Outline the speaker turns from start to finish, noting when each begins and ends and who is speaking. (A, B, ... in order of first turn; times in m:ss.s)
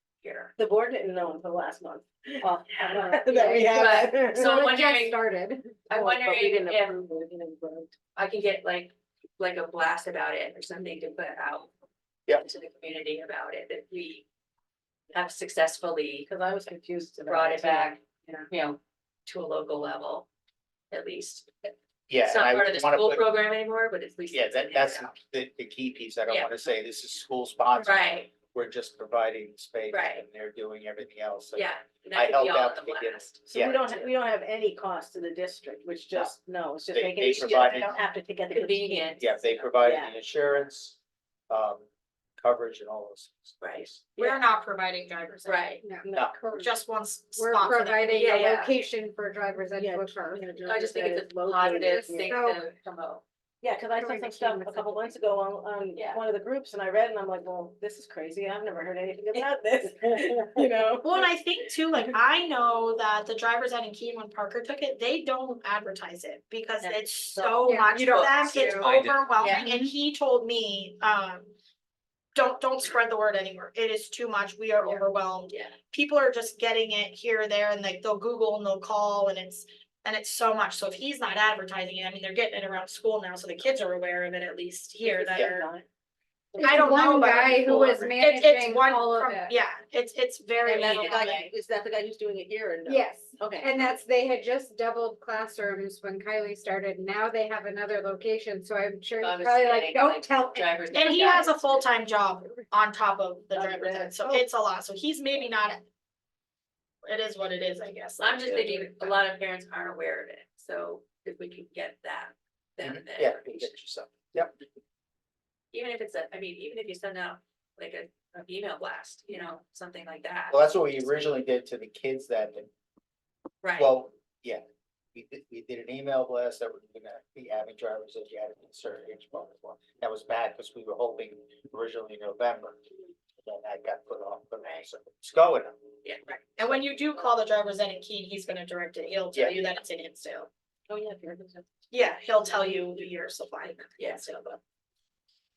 0:00.2-0:00.6 A
0:00.6-0:04.7 B
0:02.9-0:05.8 C
0:03.3-0:05.2 A
0:05.9-0:07.0 A
0:05.9-0:08.0 B
0:08.1-0:11.7 A
0:12.3-0:14.2 A
0:15.1-0:16.3 A
0:16.3-0:18.0 B
0:17.2-0:20.3 A
0:20.9-0:25.1 A
0:22.1-0:23.3 D
0:24.3-0:33.8 D
0:26.3-0:26.5 A
0:27.8-0:28.3 A
0:29.9-0:30.2 A
0:31.5-0:34.1 A
0:33.5-0:39.2 B
0:36.9-0:38.0 D
0:38.5-0:39.8 A
0:39.2-0:41.0 D
0:39.8-0:40.2 B
0:41.5-0:41.8 D
0:42.4-0:44.1 D
0:43.6-0:43.9 A
0:44.2-0:45.8 E
0:44.2-0:44.4 B
0:45.4-0:45.8 A
0:45.8-0:46.8 C
0:46.0-0:46.4 B
0:46.1-0:46.4 D
0:46.5-0:48.6 E
0:47.4-0:50.5 C
0:48.1-0:48.7 A
0:49.8-0:52.4 B
0:50.6-0:53.2 A
0:51.7-0:52.6 C
0:53.6-1:01.3 B
0:54.0-0:55.2 C
0:55.9-0:56.2 A
1:01.0-1:11.5 E
1:06.8-1:07.6 B
1:06.8-1:09.7 A
1:07.6-1:08.0 C
1:12.4-1:25.7 E
1:14.9-1:15.8 A
1:25.0-1:25.9 B
1:26.6-1:28.0 B
1:26.6-1:29.5 C
1:26.6-1:31.4 E
1:30.6-1:33.9 B
1:30.7-1:31.5 A
1:32.9-1:41.6 C
1:39.2-1:41.5 A
1:40.9-1:45.8 E
1:43.5-1:44.5 B
1:47.0-1:49.1 E
1:48.2-1:53.7 A
1:52.8-1:54.6 D
1:55.7-2:00.6 A
2:00.5-2:02.7 D
2:03.6-2:03.9 A
2:03.8-2:12.8 D
2:13.4-2:15.8 D
2:16.0-2:16.4 A
2:16.6-2:20.5 E
2:19.3-2:19.7 D
2:20.9-2:21.7 B
2:21.9-2:24.6 E
2:24.0-2:24.2 A